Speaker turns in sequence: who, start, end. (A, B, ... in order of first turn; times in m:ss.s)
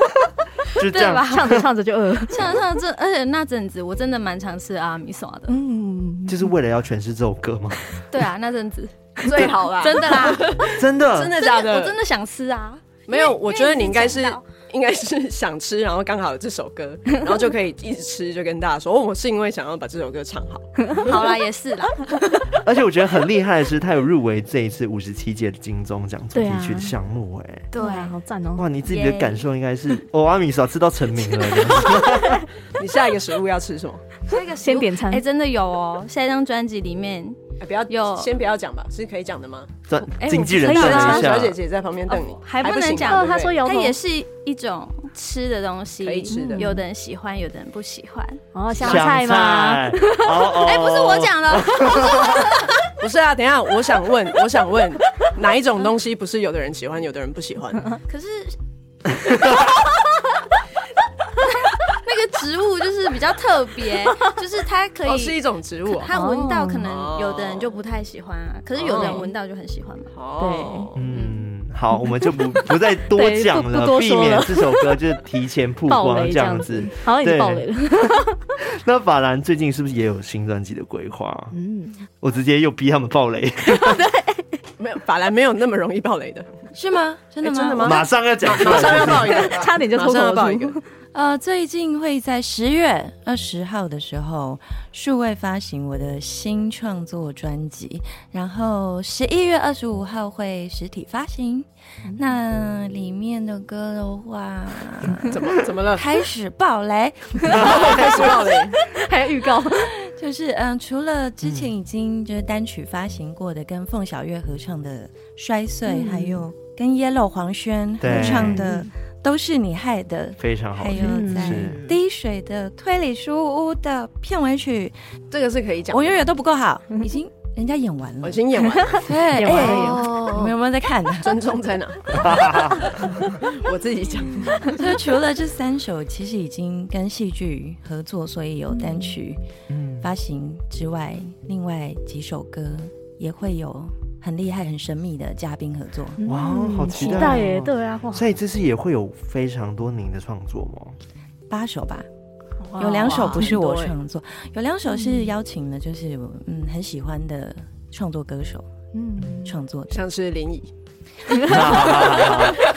0:00.8-0:01.6 A
0:00.8-0:01.6 B
0:01.1-0:02.6 C
0:02.3-0:05.6 B
0:05.5-0:06.5 C
0:06.3-0:08.0 A
0:08.1-0:10.7 B
0:09.2-0:12.0 D
0:10.7-0:11.3 A
0:11.3-0:14.4 B
0:13.1-0:21.1 D
0:20.9-0:22.2 B
0:22.6-0:27.7 A
0:26.3-0:27.0 C
0:27.7-0:28.2 B
0:27.7-0:28.7 C
0:28.6-0:32.5 A
0:28.8-0:29.4 B
0:32.7-0:34.1 D
0:34.3-0:38.3 B
0:34.4-0:35.2 C
0:37.6-0:39.7 D
0:39.9-0:41.6 A
0:40.0-0:41.4 B
0:40.6-0:41.3 C
0:40.6-0:43.6 D
0:42.1-0:48.4 B
0:42.6-0:44.0 C
0:46.0-0:46.7 D
0:46.3-0:46.8 C
0:48.5-0:50.4 C
0:48.7-0:52.5 A
0:48.8-0:49.1 D
0:50.6-0:52.8 B
0:53.0-0:58.0 D
0:58.1-0:58.6 B
0:59.3-0:59.8 B
1:01.4-1:10.1 B
1:05.0-1:06.1 D
1:06.1-1:06.9 C
1:06.8-1:07.7 D
1:08.8-1:09.3 D
1:08.9-1:09.3 C
1:10.1-1:11.1 D
1:10.4-1:10.9 C
1:11.0-1:17.7 A
1:11.1-1:11.4 B
1:12.0-1:15.0 C
1:15.9-1:18.4 C
1:18.6-1:21.5 A
1:21.5-1:22.0 C
1:22.2-1:24.0 A
1:23.7-1:24.5 C
1:24.8-1:26.7 D
1:26.7-1:28.1 E
1:27.4-1:30.8 D
1:27.8-1:29.6 A
1:29.3-1:30.9 C
1:31.1-1:48.2 E
1:45.2-1:46.1 D
1:47.4-1:50.0 C
1:47.5-1:48.8 D
1:47.7-1:48.3 A
1:49.6-2:05.0 E
1:51.4-1:51.7 A
1:55.9-1:56.4 C
1:58.0-1:58.7 A
1:58.1-1:58.9 C
2:00.4-2:01.8 A
2:01.0-2:02.0 C
2:05.3-2:06.3 D
2:05.9-2:11.4 E
2:08.2-2:10.0 D
2:08.8-2:10.1 C
2:09.6-2:10.6 B
2:11.2-2:14.7 D
2:12.1-2:12.9 A
2:14.7-2:19.4 E
2:18.7-2:19.1 C
2:19.7-2:20.1 A
2:20.0-2:26.2 E
2:26.2-2:28.3 C
2:26.3-2:31.0 A
2:31.5-2:32.1 E
2:32.6-2:33.5 C
2:32.8-2:38.7 E
2:33.0-2:33.9 D
2:34.9-2:35.3 C
2:38.9-2:39.6 C
2:39.2-2:40.0 E
2:39.9-2:40.7 D
2:41.3-2:42.2 C
2:41.4-2:42.7 A